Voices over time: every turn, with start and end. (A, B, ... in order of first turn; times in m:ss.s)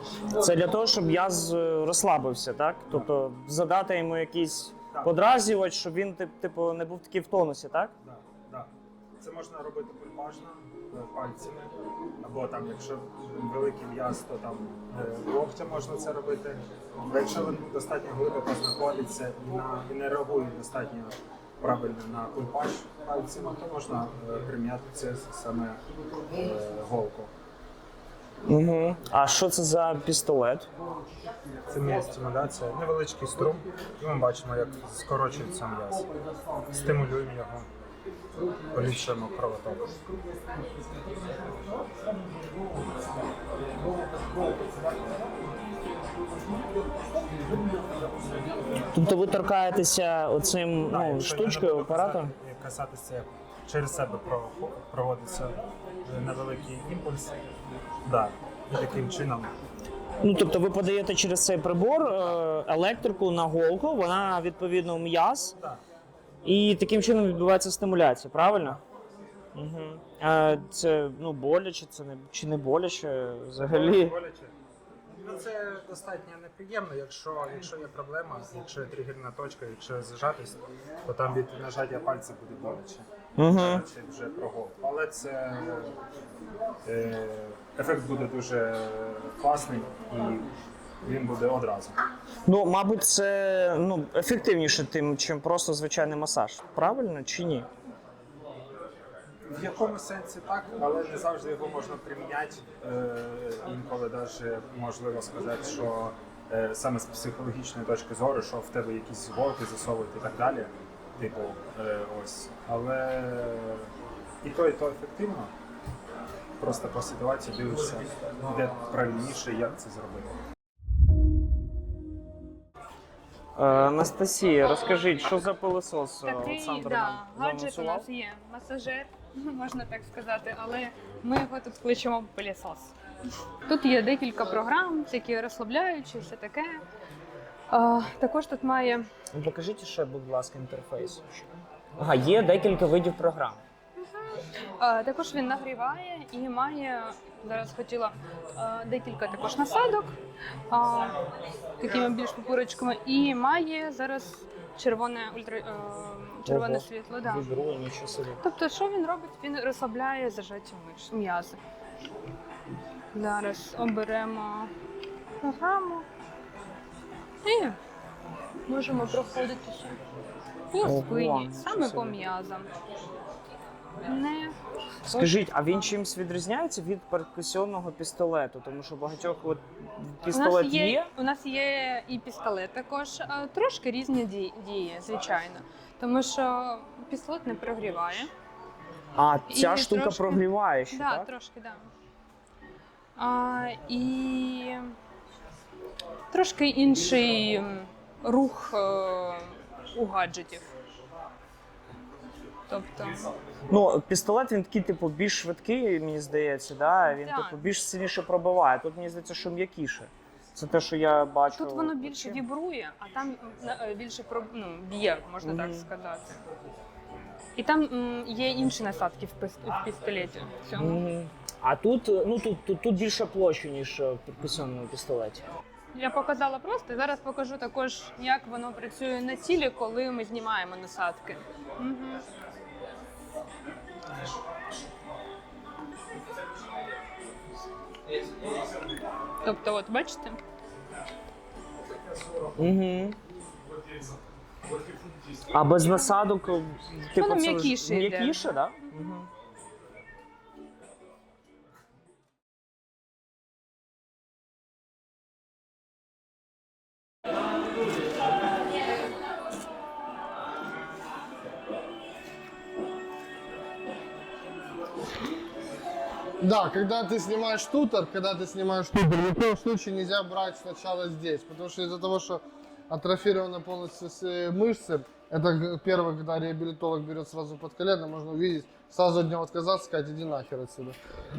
0:00.3-0:00.8 A
0:00.4-0:07.9 B
0:04.9-0:05.2 C
0:08.0-0:25.8 C
0:26.3-0:27.3 C
0:28.5-0:30.7 B
0:31.7-0:36.1 C
0:36.7-0:37.7 C
0:38.7-0:39.9 C
0:48.9-0:52.3 B
0:50.9-0:57.4 C
0:58.0-0:59.5 C
1:00.2-1:05.6 B
1:06.4-1:08.8 B
1:09.6-1:14.2 B
1:13.6-1:14.5 C
1:15.2-1:26.0 C
1:23.4-1:23.9 B
1:26.8-1:30.5 C
1:31.0-1:32.0 C
1:32.5-1:37.7 B
1:39.5-1:53.9 C
1:54.4-1:55.5 C
1:56.6-2:00.4 C
2:03.6-2:08.1 B
2:06.2-2:12.9 D
2:13.7-2:16.8 D
2:17.7-2:19.0 D
2:19.3-2:23.6 B
2:24.8-2:30.2 D
2:30.7-2:31.2 D
2:31.8-2:37.5 D
2:36.5-2:38.4 B
2:38.4-2:41.6 D
2:43.1-2:44.7 D
2:45.4-2:46.1 D
2:47.4-2:47.8 D
2:48.7-2:50.0 D
2:50.7-2:52.7 D
2:50.8-2:52.2 B
2:54.0-2:54.6 D
2:55.1-2:55.3 D
2:55.1-3:01.1 B
3:00.3-3:08.3 D
3:09.2-3:11.3 B
3:09.5-3:11.9 D
3:13.2-3:15.0 D
3:16.3-3:20.7 D
3:22.7-3:23.3 D
3:23.7-3:32.4 B
3:27.1-3:27.6 D
3:31.5-3:36.4 D
3:35.4-3:35.9 B
3:37.6-3:41.0 D
3:40.8-3:45.5 B
3:46.0-3:52.3 D
3:59.4-4:00.4 D
4:02.6-4:03.2 B
4:05.5-4:09.3 B
4:07.2-4:08.9 D
4:26.4-4:41.0 A